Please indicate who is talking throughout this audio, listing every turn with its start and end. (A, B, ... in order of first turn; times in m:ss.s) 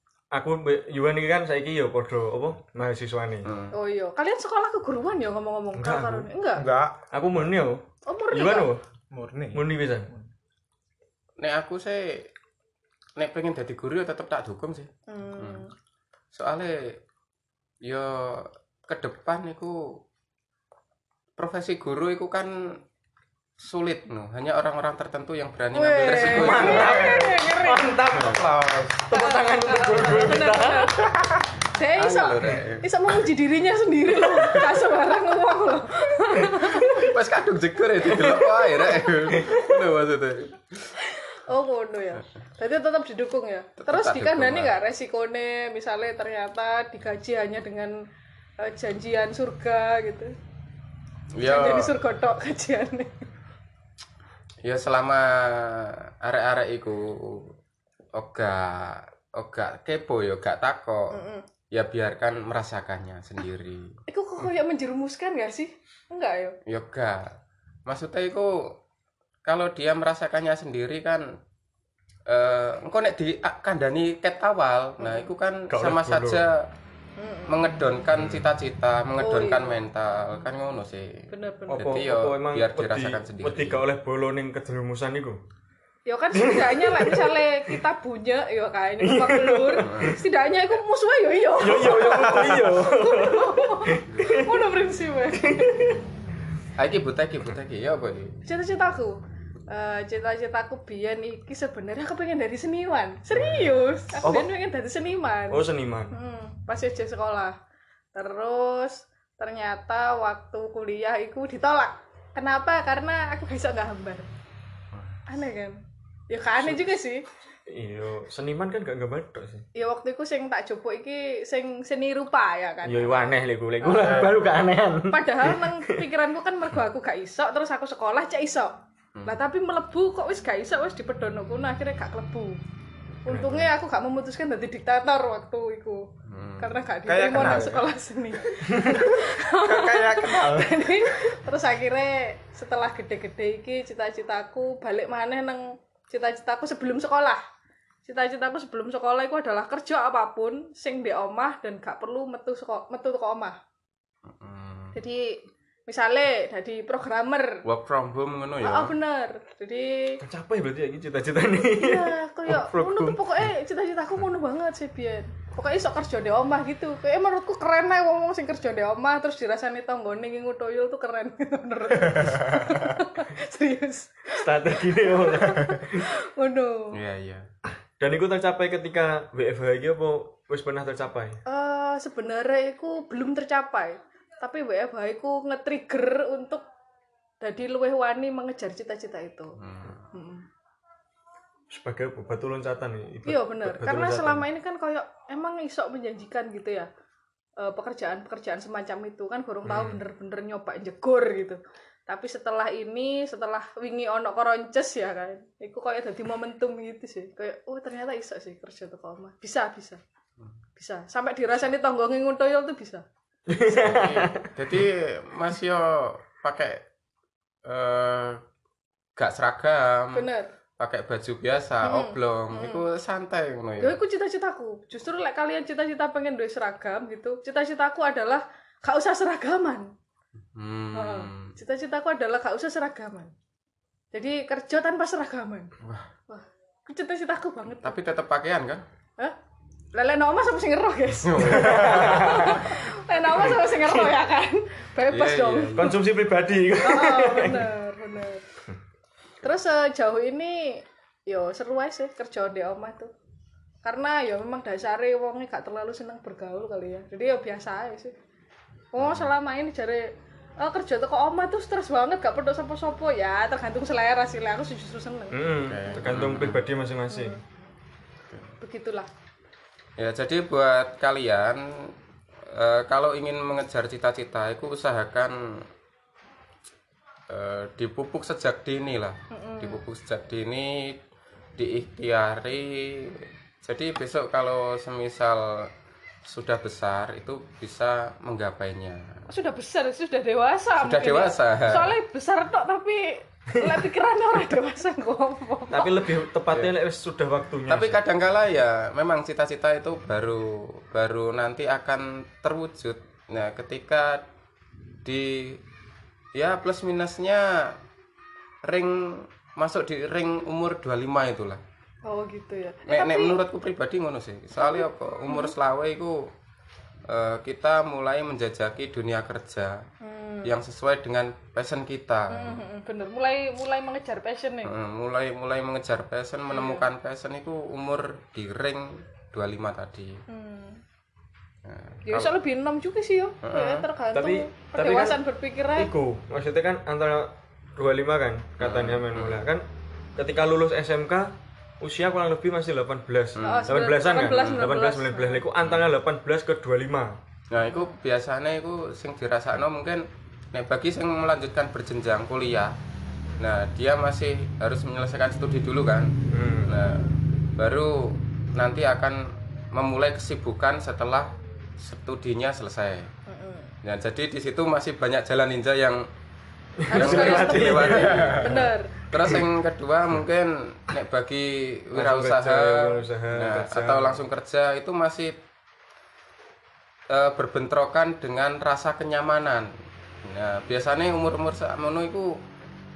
0:00.3-0:03.5 A
0:03.4-0:03.7 B
0:03.7-0:06.7 C
0:05.8-0:06.3 A
0:06.6-0:07.0 D
0:07.1-0:08.8 A
0:08.0-0:08.7 C
0:09.1-0:10.3 D
0:09.5-0:10.1 A
0:11.4-0:12.3 B
0:13.2-0:15.6 B
0:15.1-0:15.7 C
0:16.3-0:17.0 B
0:17.8-0:19.8 B
0:21.4-0:22.8 B
0:23.6-0:27.1 B
0:25.7-0:28.0 C
0:26.2-0:28.5 A
0:28.2-0:29.0 D
0:29.0-0:30.9 A
0:29.1-0:31.1 C
0:31.7-0:37.1 C
0:32.0-0:32.8 B
0:36.7-0:40.6 B
0:38.0-0:38.8 C
0:41.0-0:48.0 C
0:43.8-0:44.8 B
0:48.6-0:50.3 C
0:51.4-0:51.9 B
0:51.4-0:53.1 C
0:54.6-0:57.5 B
0:58.2-1:01.2 B
1:01.1-1:01.4 C
1:01.7-1:04.5 B
1:04.1-1:06.6 C
1:06.7-1:07.2 B
1:07.9-1:08.8 B
1:09.5-1:11.2 B
1:12.3-1:16.6 B
1:15.0-1:15.3 C
1:15.7-1:16.4 A
1:17.2-1:17.6 C
1:17.5-1:23.8 B
1:18.2-1:18.4 A
1:19.2-1:19.8 C
1:21.3-1:21.8 C
1:21.7-1:25.4 A
1:26.1-1:35.9 C
1:26.3-1:27.8 A
1:29.0-1:30.2 A
1:29.8-1:30.2 B
1:31.6-1:34.6 A
1:32.3-1:32.6 D
1:35.4-1:36.0 A
1:36.8-1:38.4 B
1:38.4-1:47.6 C
1:44.2-1:44.5 A
1:45.5-1:46.1 A
1:48.1-1:54.3 C
1:55.3-1:55.8 C
1:56.3-1:57.2 C
1:56.6-1:56.9 A
1:57.7-1:59.6 A
1:59.8-2:03.3 C
2:02.8-2:06.1 A
2:03.9-2:04.2 C
2:04.0-2:04.4 D
2:05.1-2:08.7 C
2:09.3-2:12.6 C
2:13.2-2:16.0 C
2:13.3-2:13.7 A
2:16.3-2:16.8 B
2:16.6-2:27.4 C
2:17.1-2:17.9 D
2:19.6-2:21.0 D
2:28.0-2:33.6 C
2:34.3-2:35.0 B
2:34.9-2:35.4 C
2:35.9-2:37.6 C
2:37.6-2:38.9 B
2:38.6-2:40.2 C
2:40.2-2:43.4 A
2:41.8-2:56.9 C
2:52.2-2:52.8 D
2:54.3-2:56.1 A
2:56.9-2:57.4 B
2:58.0-3:01.4 A
3:01.5-3:06.6 C
3:07.4-3:09.5 C
3:09.6-3:10.1 B
3:10.1-3:10.5 C
3:11.7-3:14.4 A
3:13.2-3:16.9 C
3:17.6-3:30.0 C
3:19.7-3:20.0 B
3:30.8-3:33.0 C
3:33.5-3:34.5 A
3:33.7-3:36.8 B
3:37.7-3:38.4 B
3:39.2-3:40.3 B
3:40.1-3:40.5 C
3:40.8-3:44.0 B
3:41.8-3:42.8 C
3:43.8-3:49.9 C
3:50.6-3:51.6 B
3:50.9-3:53.3 C
3:54.1-3:55.7 C
3:55.8-3:56.1 B
3:56.3-3:58.0 C
3:57.8-3:58.8 B
3:59.9-4:05.9 C
4:01.2-4:02.2 B
4:01.4-4:02.7 A
4:03.4-4:04.2 A
4:05.1-4:06.0 B
4:05.8-4:07.7 A
4:06.8-4:08.4 C
4:09.4-4:13.1 C
4:13.8-4:18.1 C
4:19.0-4:20.1 C
4:19.0-4:19.3 B
4:20.6-4:25.4 C
4:25.3-4:27.4 A
4:25.6-4:26.6 B
4:27.1-4:27.4 C
4:28.6-4:29.1 C
4:30.0-4:31.6 B
4:32.5-4:35.4 B
4:37.3-4:41.0 B
4:39.3-4:39.8 C
4:41.6-4:45.7 B
4:46.3-4:49.1 B
4:49.3-4:56.2 C
4:50.8-4:51.9 B
4:55.7-4:58.0 A
4:56.5-4:56.8 B
4:57.7-5:04.2 B
5:05.0-5:05.6 B
5:06.4-5:07.7 B
5:08.6-5:11.6 B
5:12.1-5:13.4 C
5:12.9-5:16.2 B
5:14.6-5:15.5 C
5:17.1-5:19.8 B
5:20.0-5:20.6 C
5:20.4-5:22.6 B
5:22.3-5:24.7 C
5:24.6-5:30.2 B
5:26.5-5:26.9 C
5:30.3-5:30.8 C
5:31.6-5:32.3 B
5:32.1-5:35.9 C
5:33.4-5:33.9 B
5:34.1-5:35.2 A
5:35.7-5:47.2 A
5:38.6-5:39.5 B
5:43.4-5:44.7 B
5:43.4-5:45.4 C
5:45.6-5:45.9 B
5:47.5-5:52.7 B
5:47.7-5:48.0 C
5:53.4-5:56.1 B
5:56.3-5:56.8 A
5:56.7-5:57.2 C
5:56.7-5:57.0 B
5:57.6-5:59.2 B
5:59.7-6:03.1 B
6:03.3-6:03.7 C
6:03.8-6:06.0 B
6:06.8-6:08.7 A
6:06.9-6:09.0 C
6:06.9-6:15.4 B
6:11.9-6:14.2 A
6:17.1-6:19.7 B
6:20.3-6:22.3 B